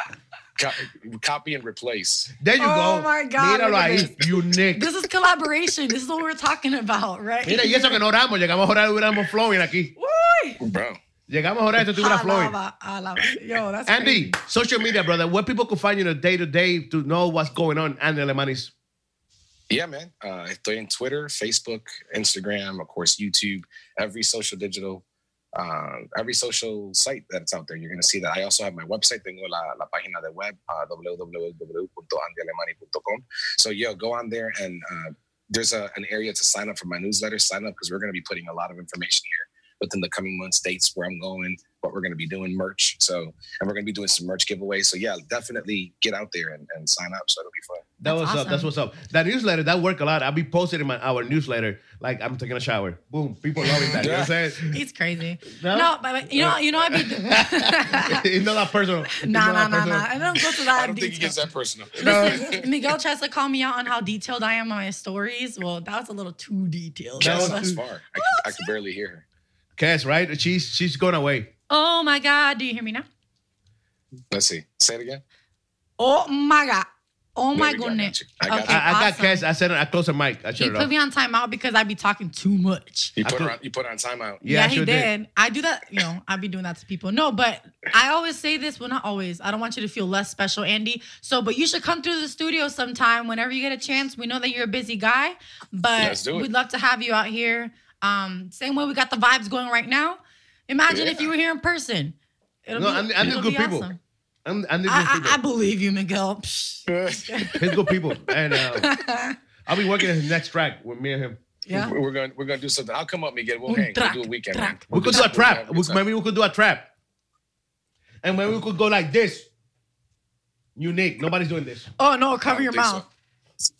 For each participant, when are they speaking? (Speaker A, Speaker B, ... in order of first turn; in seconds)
Speaker A: 0.6-2.3, 10.6-11.0, 19.7-25.0, 25.5-47.9, 53.6-54.4, 60.7-62.7, 67.2-69.2, 74.3-75.2, 77.5-78.8, 83.2-84.4, 96.0-96.5, 100.9-101.3, 106.9-107.8, 111.7-116.0, 122.4-123.0
Speaker B: 2.4-4.9, 7.4-9.9, 11.3-12.6, 13.9-18.7, 48.0-54.7, 55.5-60.1, 62.0-62.5, 67.2-67.8, 69.8-71.5, 78.6-80.9, 83.2-83.6, 84.4-85.1, 102.7-103.9, 104.4-105.4, 107.5-109.0, 109.7-111.4, 114.9-116.9, 118.2-119.5, 120.8-121.9
Speaker C: 2.6-4.2, 4.7-8.0, 10.0-10.6, 11.9-14.4, 48.0-48.7, 54.7-58.2, 59.2-68.5, 71.7-73.0, 76.0-79.4, 80.6-83.1, 84.4-102.1, 102.7-104.0, 104.8-107.7, 108.8-109.3, 111.7-111.9, 113.7-115.3, 122.0-123.0